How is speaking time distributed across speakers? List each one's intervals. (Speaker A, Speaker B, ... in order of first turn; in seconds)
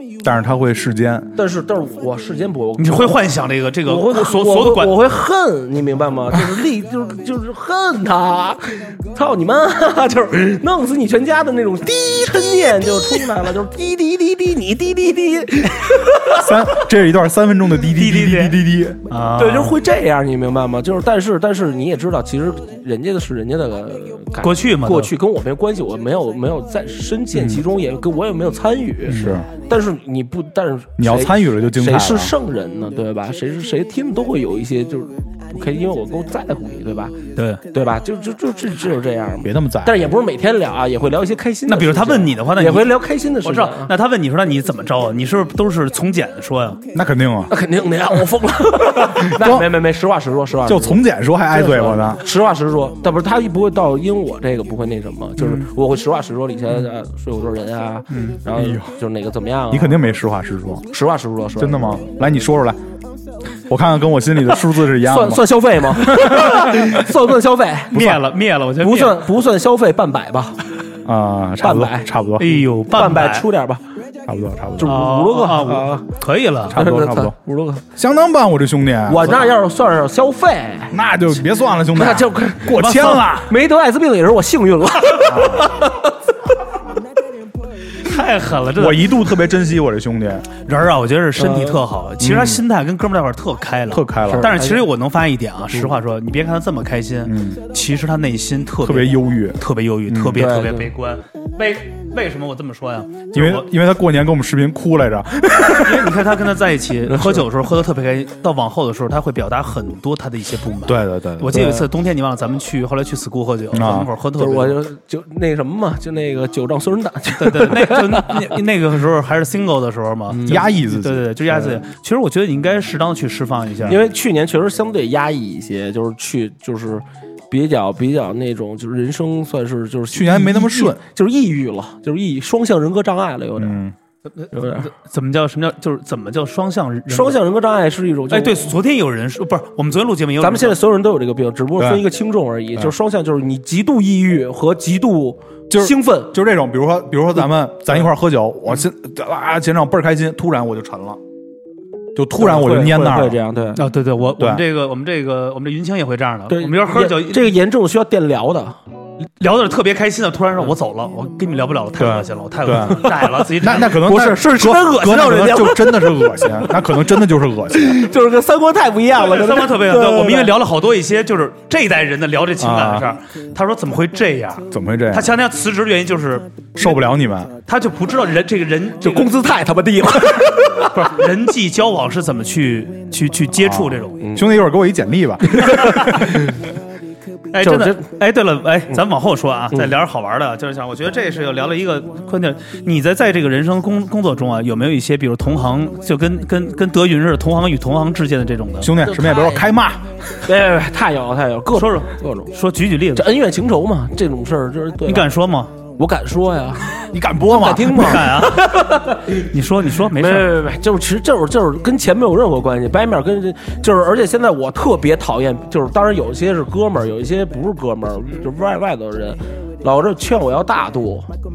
Speaker A: 0.2-1.3, 16.3-19.0, 29.1-29.5, 31.0-32.3, 39.4-40.0, 46.9-47.5, 49.3-49.7, 50.6-52.2, 58.5-58.9, 59.7-60.8, 61.6-62.8, 63.7-66.9, 67.9-68.2, 71.0-72.5, 74.3-75.0, 76.7-77.3, 77.9-79.4, 80.9-83.5, 85.3-85.7, 88.8-90.5, 92.2-92.6, 93.9-94.5, 97.2-97.6, 98.8-100.4, 103.3-106.2, 110.8-111.8, 113.7-114.1, 120.5-121.3, 130.1-131.0, 133.6-133.9, 141.8-142.0, 145.7-151.2, 152.1-153.4, 154.4-154.6, 162.0-168.1, 172.6-173.1, 174.7-175.3, 176.8-177.5, 183.6-186.1, 198.8-200.4, 207.1-208.2
Speaker B: 1.4-3.3, 3.9-16.5, 19.3-37.2, 37.7-43.9, 47.5-60.1, 60.9-62.0, 65.0-68.1, 68.8-70.7, 71.6-72.1, 72.9-73.8, 74.8-76.1, 76.7-77.8, 79.1-81.0, 81.9-86.2, 91.4-91.8, 94.2-94.9, 100.3-100.9, 107.1-107.4, 111.5-111.8, 114.4-118.5, 120.3-120.6, 123.9-133.8, 134.5-134.9, 137.1-138.7, 140.4-146.3, 152.4-153.8, 156.5-158.8, 163.1-166.8, 167.7-170.5, 179.0-181.1, 184.2-184.5, 185.5-186.6, 187.6-188.1, 199.0-199.6, 200.4-202.5, 203.1-205.3, 206.0-209.5, 210.1-221.3
Speaker C: 2.8-4.9, 17.9-19.8, 24.4-25.1, 29.1-29.4, 37.4-37.6, 41.7-46.8, 55.4-55.7, 58.1-58.4, 67.9-69.2, 72.4-73.5, 74.8-76.8, 82.7-83.3, 88.0-89.2, 90.6-103.6, 105.7-114.8, 117.4-124.0, 134.4-137.4, 138.3-140.8, 153.8-157.5, 159.4-164.0, 169.2-177.0, 177.7-179.3, 180.9-184.2, 185.8-186.2, 187.5-199.0, 201.7-203.3, 205.1-205.7, 207.9-210.6